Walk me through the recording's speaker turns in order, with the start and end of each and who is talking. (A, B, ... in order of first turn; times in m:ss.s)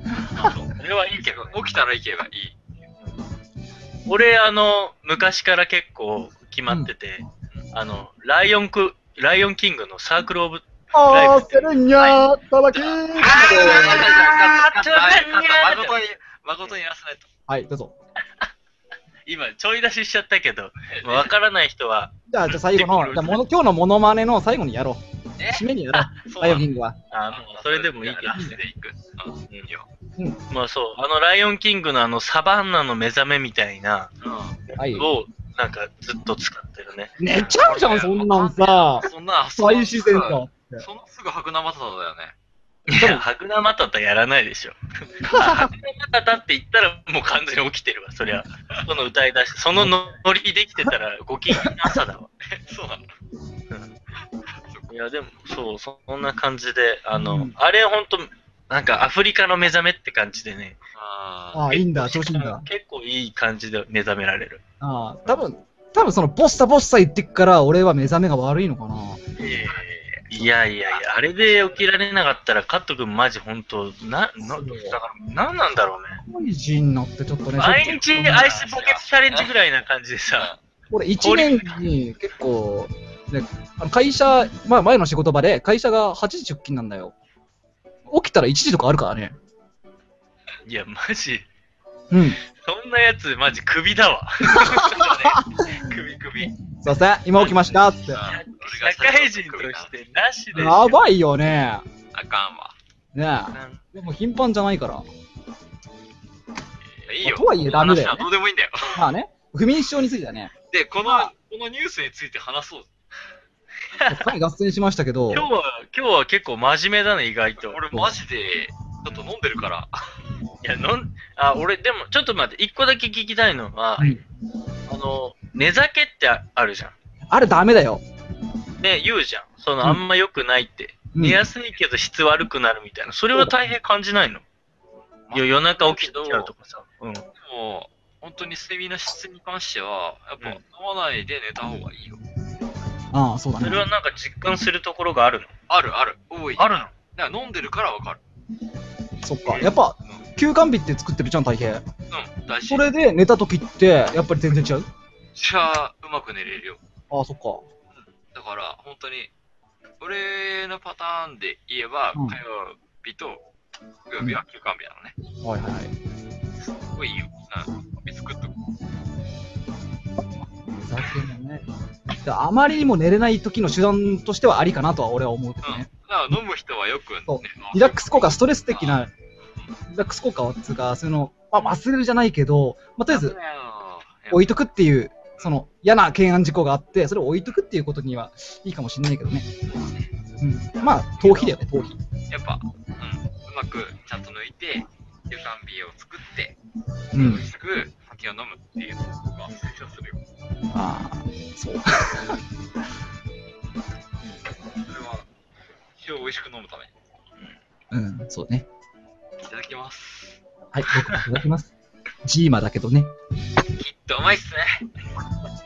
0:00.4-0:02.6 A
0:00.4-0:01.6 B
0:04.1-0:11.8 B
0:10.9-0:14.1 C
0:12.7-0:17.3 A
0:13.2-0:16.0 B
0:17.5-0:17.9 C
0:19.3-0:23.4 B
0:20.9-0:21.3 A
0:22.3-0:27.0 C
0:25.4-0:25.6 A
0:26.2-0:26.7 A
0:27.1-0:28.6 B
0:27.3-0:29.9 A
0:30.5-0:34.1 B
0:34.2-0:34.6 A
0:34.7-0:37.5 B
0:34.8-0:35.1 C
0:37.2-0:40.8 C
0:37.6-0:42.3 A
0:42.9-0:52.3 B
0:43.0-0:43.2 C
0:45.2-0:45.7 C
0:51.6-0:52.0 C
0:52.5-0:53.1 A
0:54.6-0:54.9 A
0:54.9-1:00.8 B
0:57.1-0:57.6 C
1:00.9-1:01.7 A
1:01.5-1:02.6 C
1:01.7-1:04.6 B
1:04.8-1:09.2 C
1:09.4-1:16.2 B
1:09.8-1:10.0 A
1:14.4-1:15.0 C
1:16.2-1:18.5 C
1:17.6-1:20.5 B
1:18.3-1:19.5 A
1:20.9-1:27.1 C
1:21.2-1:21.8 B
1:28.1-1:29.3 C
1:30.6-1:31.4 B
1:32.1-1:32.4 C
1:32.6-1:35.4 B
1:34.4-1:35.8 C
1:34.7-1:36.6 A
1:36.6-1:38.2 C
1:37.4-1:39.9 A
1:38.1-1:41.0 B
1:40.6-1:41.9 C
1:42.1-1:42.8 A
1:43.1-1:45.0 C
1:43.5-1:43.8 B
1:47.0-1:49.0 A
1:47.2-1:48.3 C
1:48.9-1:50.5 C
1:50.7-1:52.9 A
1:51.0-1:51.3 C
1:54.0-1:54.3 B
1:54.1-1:55.5 C
1:55.3-1:57.8 B
1:57.6-2:00.1 A
2:00.6-2:04.2 B
2:04.9-2:06.9 B
2:07.3-2:08.0 C
2:08.8-2:14.4 B
2:11.1-2:11.4 C
2:15.3-2:16.5 A
2:15.3-2:17.2 B
2:17.4-2:22.2 A
2:23.1-2:23.8 C
2:23.6-2:25.5 B
2:25.7-2:28.2 A
2:26.6-2:26.9 B
2:29.2-2:31.8 C
2:32.1-2:32.9 A
2:32.7-2:34.9 C
2:35.4-2:36.8 A
2:37.1-2:37.6 C
2:38.0-2:39.3 A
2:40.0-2:43.4 A
2:44.1-2:45.1 A
2:45.4-2:45.9 C
2:46.6-2:48.5 A
2:50.5-2:51.6 C
2:52.2-2:55.9 C
2:55.6-2:59.0 A
2:57.3-2:59.1 C
2:59.9-3:03.4 C
3:03.1-3:04.5 A
3:04.3-3:09.5 C
3:09.7-3:10.1 A
3:10.4-3:12.0 C
3:11.2-3:11.6 A
3:12.3-3:16.6 A
3:17.1-3:17.4 C
3:17.1-3:20.2 A
3:20.7-3:22.4 C
3:24.8-3:25.3 A
3:26.0-3:26.9 A
3:27.9-3:28.6 C
3:29.4-3:30.4 A
3:30.7-3:31.7 C
3:32.2-3:33.1 C
3:33.8-3:34.9 A